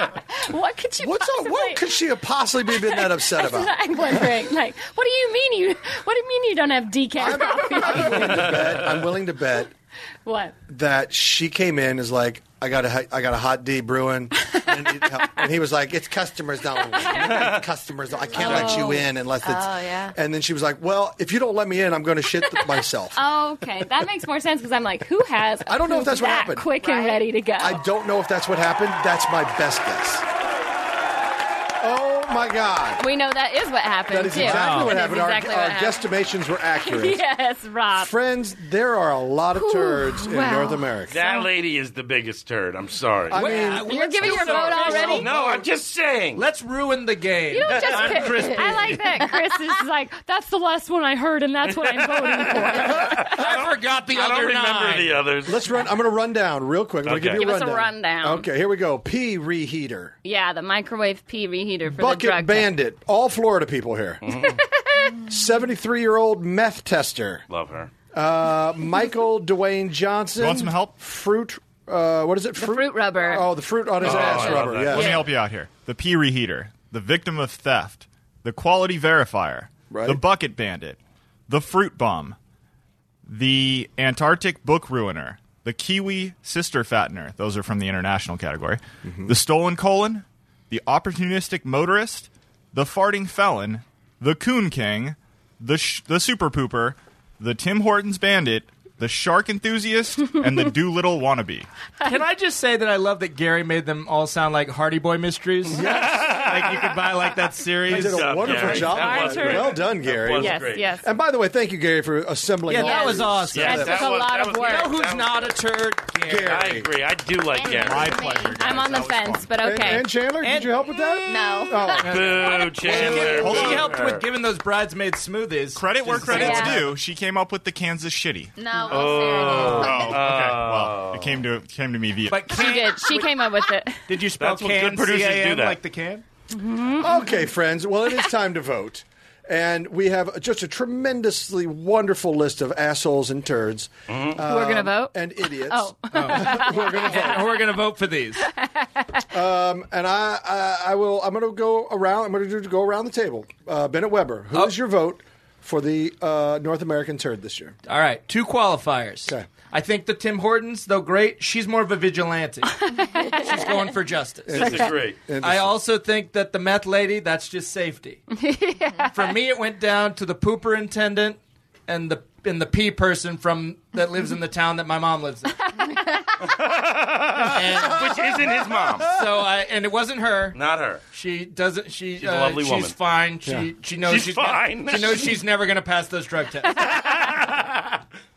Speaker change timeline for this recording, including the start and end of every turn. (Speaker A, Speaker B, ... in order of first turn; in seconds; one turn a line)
Speaker A: 0.3-1.8
Speaker B: 1.0-3.8
Speaker A: 2.7-8.5
Speaker B: 7.2-9.7
Speaker C: 8.3-8.9
Speaker A: 10.3-10.6
Speaker B: 10.7-23.2
Speaker A: 17.0-17.3
Speaker C: 17.2-17.6
Speaker D: 18.3-20.2
Speaker A: 18.4-18.8
Speaker C: 18.4-18.8
Speaker A: 23.1-27.8
Speaker B: 25.6-26.7
Speaker D: 26.8-27.3
Speaker B: 27.6-30.2
Speaker B: 31.8-33.0
Speaker A: 33.0-36.1
Speaker B: 34.1-37.2
Speaker E: 34.3-35.0
Speaker A: 36.8-38.1
Speaker B: 38.0-41.2
Speaker A: 39.5-41.5
Speaker C: 41.1-46.5
Speaker B: 43.3-45.6
Speaker E: 43.3-45.5
Speaker A: 43.8-45.3
Speaker E: 46.4-49.0
Speaker A: 47.5-53.3
Speaker C: 47.7-48.5
Speaker C: 52.0-55.6
Speaker E: 52.9-55.2
Speaker B: 55.5-60.2
Speaker C: 57.0-57.4
Speaker A: 57.3-58.5
Speaker A: 60.2-62.7
Speaker B: 61.9-64.4
Speaker C: 64.2-64.6
Speaker A: 64.3-65.2
Speaker B: 65.2-67.4
Speaker C: 67.5-67.9
Speaker B: 68.1-75.2
Speaker F: 70.4-71.0
Speaker A: 72.6-73.5
Speaker C: 74.0-75.3
Speaker F: 74.0-81.0
Speaker A: 74.9-75.3
Speaker B: 79.9-80.2
Speaker F: 81.5-82.4
Speaker F: 83.3-101.7
Speaker B: 89.0-89.3
Speaker E: 102.0-109.0
Speaker C: 105.7-111.0
Speaker B: 105.7-106.6
Speaker B: 107.9-113.9
Speaker A: 108.8-111.1
Speaker E: 112.7-114.0
Speaker A: 112.8-115.0
Speaker C: 113.4-115.7
Speaker E: 114.6-116.7
Speaker C: 116.2-118.3
Speaker B: 116.2-116.9
Speaker D: 117.5-118.6
Speaker F: 117.8-119.9
Speaker A: 118.6-120.1
Speaker B: 119.6-122.5
Speaker E: 120.4-121.3
Speaker D: 121.2-122.7
Speaker E: 122.0-127.0
Speaker C: 122.0-124.3
Speaker F: 122.9-123.9
Speaker F: 125.8-128.6
Speaker D: 126.3-126.9
Speaker D: 128.6-130.2
Speaker C: 128.8-131.5
Speaker F: 129.7-132.5
Speaker E: 132.3-133.4
Speaker A: 132.5-134.1
Speaker E: 134.1-136.2
Speaker C: 134.4-135.8
Speaker A: 136.5-137.1
Speaker B: 137.0-147.6
Speaker C: 144.1-144.4
Speaker A: 144.4-147.6
Speaker E: 146.1-148.5
Speaker A: 148.4-149.2
Speaker B: 149.3-157.8
Speaker E: 157.9-168.2
Speaker A: 162.8-163.6
Speaker B: 164.5-165.8
Speaker C: 164.5-165.3
Speaker A: 168.3-169.4
Speaker E: 169.1-175.7
Speaker C: 176.4-179.2
Speaker E: 177.5-178.4
Speaker E: 179.0-180.6
Speaker C: 180.5-181.1
Speaker E: 181.1-187.0
Speaker C: 182.1-183.1
Speaker C: 183.9-185.4
Speaker C: 186.8-188.0